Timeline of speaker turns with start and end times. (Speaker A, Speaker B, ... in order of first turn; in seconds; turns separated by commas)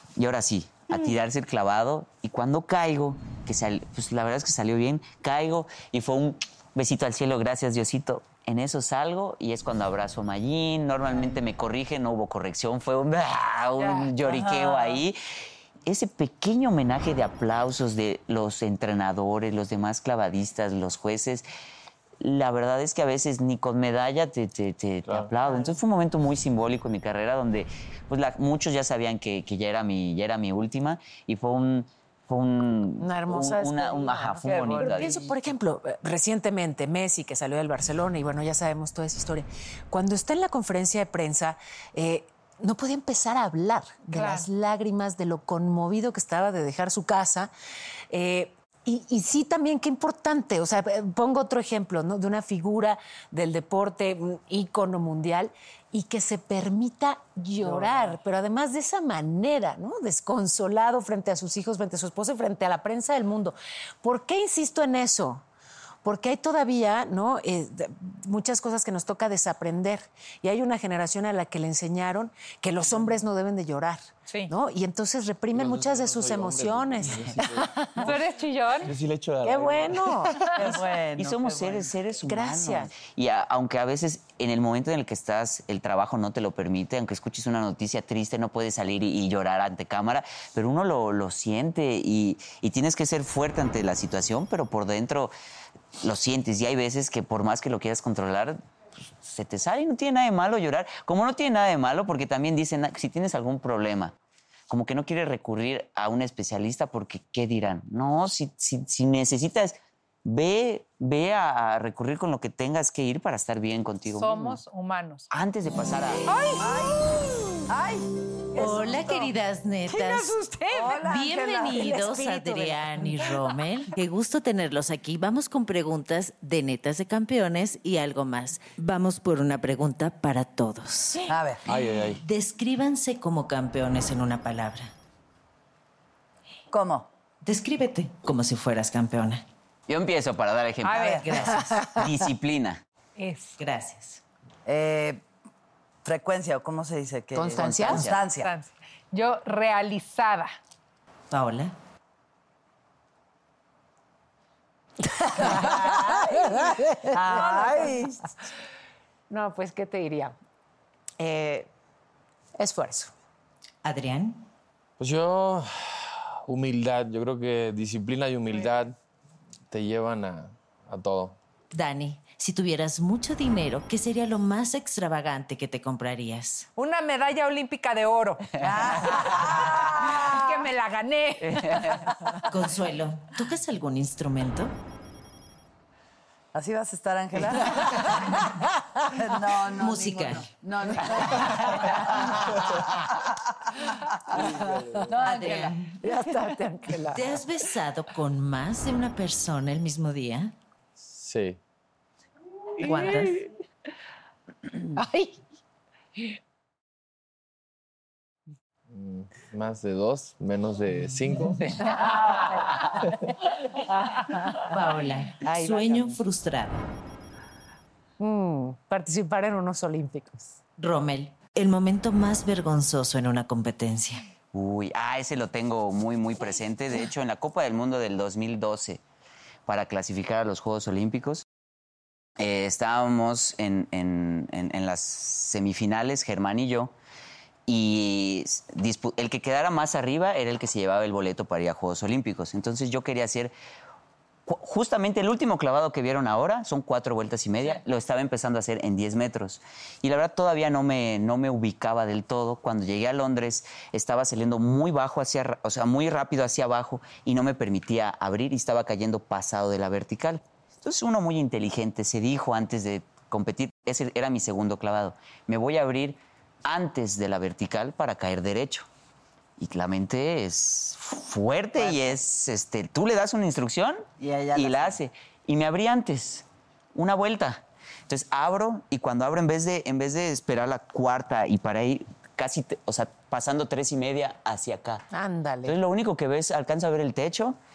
Speaker A: 0.2-15.2, Speaker B: 14.1-15.0, Speaker A: 15.8-21.5, Speaker A: 22.2-35.2, Speaker C: 33.0-47.5, Speaker B: 34.5-35.1, Speaker D: 44.1-44.5, Speaker C: 48.1-65.4, Speaker B: 57.6-58.1, Speaker C: 66.0-78.1, Speaker E: 75.5-78.2, Speaker D: 78.0-78.9, Speaker E: 78.8-80.5, Speaker C: 79.4-80.5, Speaker B: 80.5-81.9, Speaker A: 81.2-95.3, Speaker C: 82.2-82.9, Speaker A: 96.0-98.6, Speaker A: 99.2-104.1, Speaker A: 104.7-114.6, Speaker D: 114.1-115.3, Speaker A: 115.3-116.3, Speaker D: 116.3-116.9, Speaker B: 116.6-119.3, Speaker F: 118.5-120.4, Speaker D: 119.9-121.0, Speaker B: 120.7-121.8, Speaker F: 121.0-134.9, Speaker C: 121.5-123.3, Speaker B: 131.2-131.6, Speaker E: 131.7-132.2, Speaker B: 136.7-137.1, Speaker F: 137.4-139.4, Speaker A: 139.9-141.2, Speaker D: 140.8-141.3, Speaker B: 140.9-141.3, Speaker F: 141.3-142.0, Speaker A: 141.9-142.8, Speaker D: 143.2-143.6, Speaker F: 143.6-144.2, Speaker B: 144.7-145.2, Speaker B: 146.0-148.5, Speaker C: 147.3-148.1, Speaker A: 147.5-148.2, Speaker D: 148.4-150.5, Speaker F: 151.3-151.7, Speaker B: 155.4-158.3, Speaker C: 155.4-155.7, Speaker C: 157.3-157.8, Speaker D: 157.3-158.0, Speaker C: 159.3-160.3, Speaker C: 161.2-161.7, Speaker C: 162.6-163.1, Speaker F: 163.8-164.4, Speaker E: 165.0-168.9, Speaker E: 169.7-171.4, Speaker F: 171.7-176.7, Speaker D: 176.8-178.5, Speaker B: 178.6-180.6, Speaker D: 180.0-182.0, Speaker A: 181.4-182.0, Speaker F: 182.5-184.8, Speaker B: 186.5-188.5, Speaker B: 189.1-193.1, Speaker F: 189.7-190.5, Speaker B: 193.8-195.8, Speaker E: 194.3-195.1, Speaker C: 194.4-195.0, Speaker F: 195.2-195.9, Speaker C: 196.0-197.4, Speaker F: 197.1-200.5, Speaker E: 201.0-201.6, Speaker F: 202.8-203.4, Speaker C: 204.9-205.4, Speaker E: 208.9-211.7, Speaker F: 214.6-216.9, Speaker C: 215.4-216.2, Speaker C: 218.2-220.6, Speaker F: 220.8-224.2, Speaker A: 224.5-229.0, Speaker A: 229.7-231.4, Speaker A: 232.4-236.9, Speaker A: 237.7-243.5, Speaker A: 244.5-268.9, Speaker A: 269.6-285.1, Speaker B: 271.8-272.2, Speaker B: 274.2-275.0, Speaker C: 285.1-285.8, Speaker A: 285.6-287.6